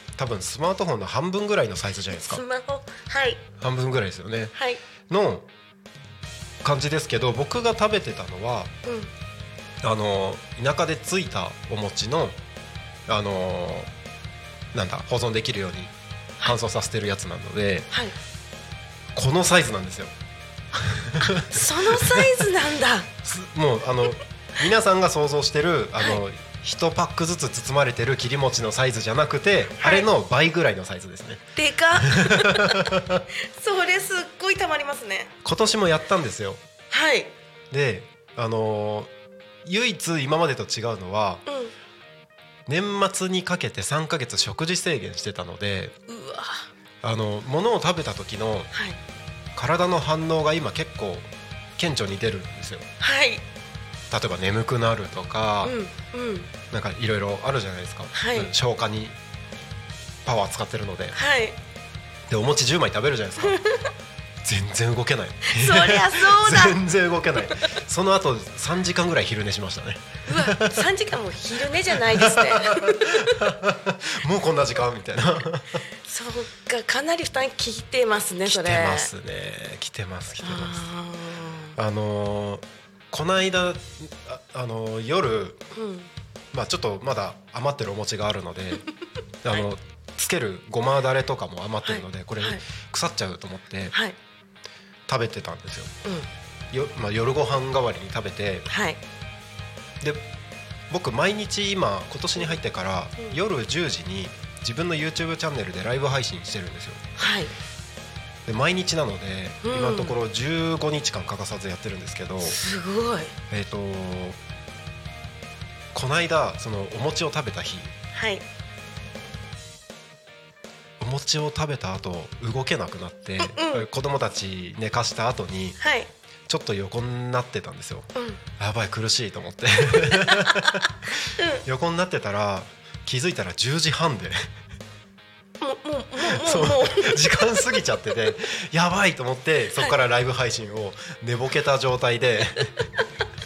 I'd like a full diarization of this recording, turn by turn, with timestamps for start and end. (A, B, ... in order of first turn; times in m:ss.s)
0:00.2-0:02.4 A
0:02.1-0:03.4 B
0:03.6-0:04.5 A
0:04.5-0:04.8 B
0:05.1-0:05.5 A
0:06.6-0:08.7 A
0:08.8-0:09.1 B
0:09.8-0:12.4 A
0:13.1-0:13.9 A
0:14.7-0:17.9 A
0:19.2-0:20.1 A
0:20.7-0:22.3 A
0:21.2-0:23.1 B
0:23.2-0:33.3 A
0:29.8-0:30.1 B
0:31.6-0:32.9 B
0:33.6-0:35.3 B
0:35.4-0:36.6 A
0:36.9-0:37.3 B
0:37.7-0:39.1 A
0:39.6-0:41.4 A
0:41.5-0:41.7 B
0:42.7-0:46.0 A
0:46.1-0:46.7 B
0:47.0-0:48.7 A
0:48.7-0:49.0 B
0:49.6-0:52.9 A
0:53.0-0:53.4 B
0:54.1-0:55.8 A
0:55.6-0:56.5 B
0:56.7-0:59.2 A
0:58.1-0:58.5 B
1:00.2-1:01.2 A
1:01.1-1:01.6 B
1:02.3-1:03.6 A
1:03.4-1:03.8 B
1:04.4-1:10.9 A
1:05.5-1:06.8 B
1:10.3-1:13.4 B
1:11.9-1:15.8 A
1:16.1-1:19.1 B
1:18.5-1:20.9 A
1:20.4-1:21.8 B
1:21.8-1:25.6 A
1:25.7-1:26.1 B
1:26.5-1:28.8 A
1:29.4-1:34.0 A
1:31.8-1:32.6 B
1:35.1-1:35.9 A
1:36.7-1:38.7 A
1:38.7-1:39.0 B
1:40.0-1:40.3 A
1:40.9-1:47.0 A
1:47.2-1:47.5 B
1:48.5-1:52.6 A
1:49.6-1:50.2 B
1:52.4-1:53.3 B
1:53.5-1:54.4 A
1:55.9-1:57.9 A
1:58.1-1:58.4 B
2:01.0-2:05.8 A
2:03.4-2:03.9 B
2:05.8-2:06.1 B
2:06.5-2:14.5 A
2:08.2-2:08.4 B
2:10.0-2:10.8 B
2:11.4-2:11.6 B
2:15.6-2:17.8 B
2:16.2-2:22.9 A